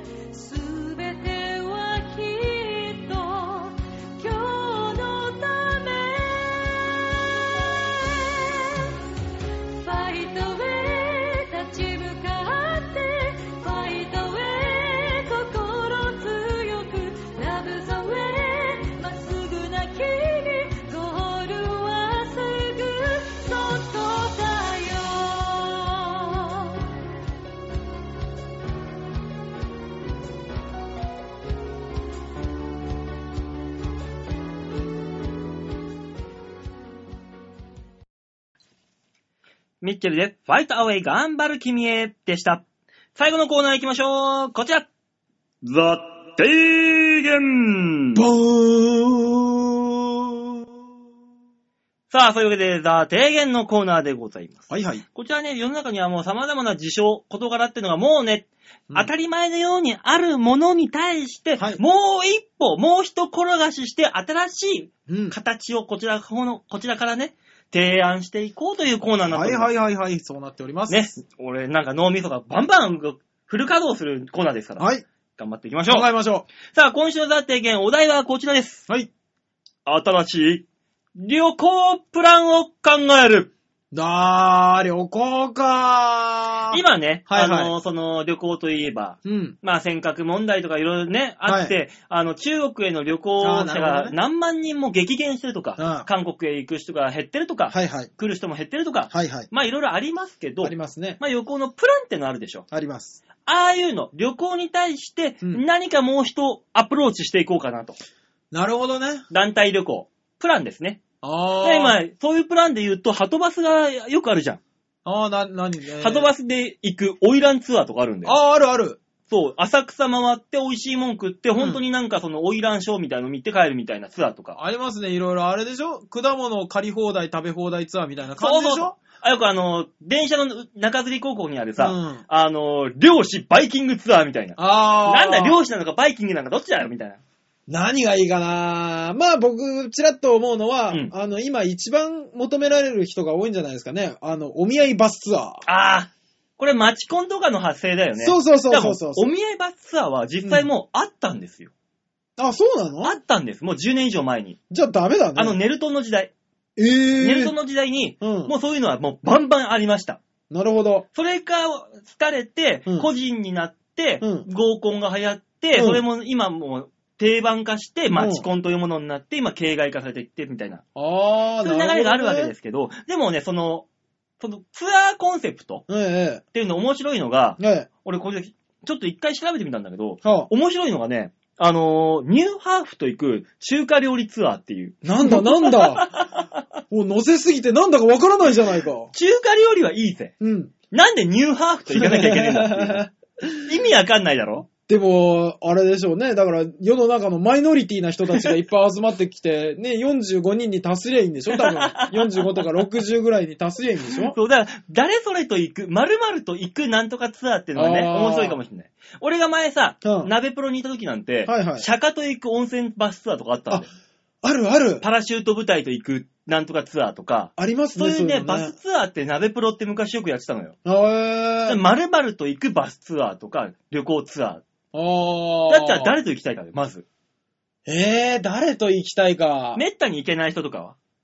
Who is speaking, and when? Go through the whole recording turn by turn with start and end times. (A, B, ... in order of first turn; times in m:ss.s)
0:00.3-0:06.9 A
0:09.8-0:26.7 A
0:39.8-0:42.6 B
0:43.1-0:44.9 B
0:45.6-0:48.2 B
0:48.1-0:50.3 C
0:52.1-1:09.7 B
0:54.7-0:55.0 C
1:05.1-1:05.4 C
1:09.3-1:11.2 C
1:10.9-1:16.1 B
1:14.8-1:15.0 C
1:15.9-1:16.5 C
1:16.7-1:18.9 B
1:19.8-1:20.6 B
1:21.2-1:23.5 B
1:23.9-1:27.7 C
1:26.7-1:42.6 B
1:29.2-1:29.6 C
1:31.4-1:31.7 C
1:33.4-1:34.2 C
1:35.8-1:36.1 C
1:37.7-1:38.1 C
1:39.1-1:39.5 C
1:40.6-1:41.2 C
1:42.7-1:43.2 C
1:43.4-1:48.0 B
1:48.5-1:49.2 C
1:49.3-1:51.0 B
1:51.2-1:52.0 C
1:51.6-1:54.6 B
1:55.0-1:56.3 C
1:56.0-1:58.4 B
1:58.2-1:59.0 C
1:59.3-2:04.6 B
2:04.6-2:09.0 C
2:08.4-2:17.2 B
2:11.8-2:12.2 C
2:14.6-2:15.6 C
2:17.7-2:25.6 C
2:25.6-2:31.7 B
2:28.2-2:29.3 C
2:32.4-2:33.2 C
2:33.0-2:34.6 B
2:34.7-2:35.6 C
2:35.4-2:36.3 B
2:36.8-2:37.5 C
2:37.2-2:40.2 B
2:38.2-2:38.5 C
2:40.5-2:41.1 C
2:41.1-2:50.8 B
2:44.2-2:44.5 C
2:45.7-2:46.0 C
2:48.1-2:48.4 C
2:51.0-2:52.5 C
2:51.6-2:53.8 B
2:54.4-2:55.8 B
2:55.9-2:56.4 C
2:56.5-3:06.4 B
2:57.6-2:57.9 C
3:00.2-3:00.5 C
3:05.0-3:06.1 C
3:06.9-3:09.1 C
3:09.1-3:10.3 B
3:10.4-3:10.7 C
3:10.9-3:13.1 B
3:11.9-3:13.6 C
3:13.6-3:14.7 B
3:14.7-3:24.4 C
3:21.5-3:22.6 B
3:24.3-3:33.9 B
3:27.7-3:28.6 C
3:30.0-3:30.3 C
3:31.5-3:31.8 C
3:34.4-3:35.0 C
3:35.0-3:40.7 B
3:37.6-3:38.7 C
3:40.8-3:41.8 C
3:41.7-3:44.6 B
3:44.9-3:46.1 C
3:45.7-3:47.0 B
3:47.8-3:49.8 C
3:49.8-3:51.0 B